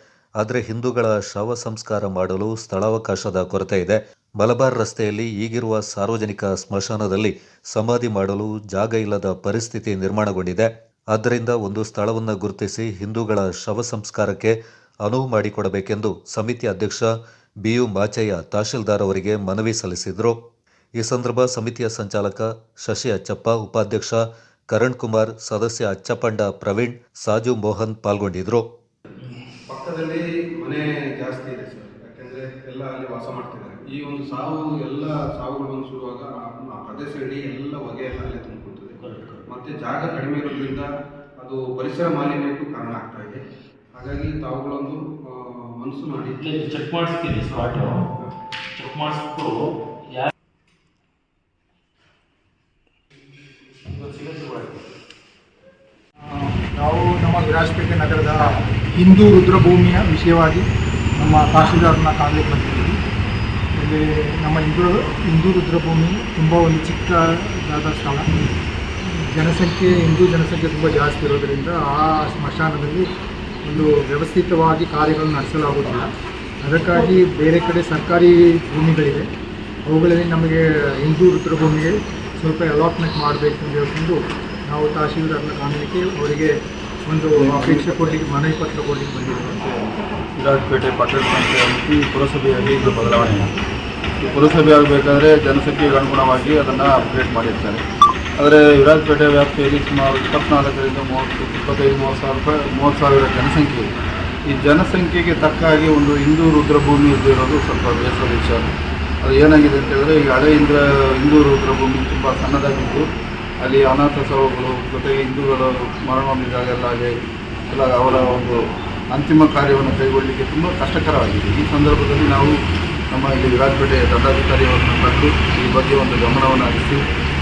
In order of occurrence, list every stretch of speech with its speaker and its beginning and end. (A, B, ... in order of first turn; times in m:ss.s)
0:00.4-0:17.1 A
0:17.6-0:20.4 A
0:21.0-0:24.2 A
0:24.7-0:28.6 A
0:29.7-0:30.2 B
0:30.0-0:34.2 C
0:31.8-0:32.2 B
0:33.8-0:35.5 B
0:35.4-0:39.0 C
0:36.2-0:36.7 B
0:39.0-0:39.4 D
0:39.5-0:40.8 C
0:41.4-0:43.4 C
0:44.0-0:46.4 C
0:46.3-0:48.1 D
0:48.8-0:50.3 D
0:53.7-0:54.8 D
0:56.2-1:00.6 E
1:01.2-1:03.0 E
1:03.8-1:08.3 E
1:09.2-1:13.1 E
1:13.6-1:16.1 E
1:16.6-1:19.3 E
1:19.9-1:24.2 E
1:24.7-1:26.5 E
1:27.0-1:29.3 E
1:27.4-1:28.2 B
1:29.2-1:33.5 B
1:34.2-1:37.8 B
1:38.4-1:43.8 B
1:44.5-1:48.7 B
1:49.2-1:53.0 B
1:53.6-1:57.1 B
1:57.7-1:58.6 B
1:59.1-2:02.5 B
2:03.1-2:07.0 B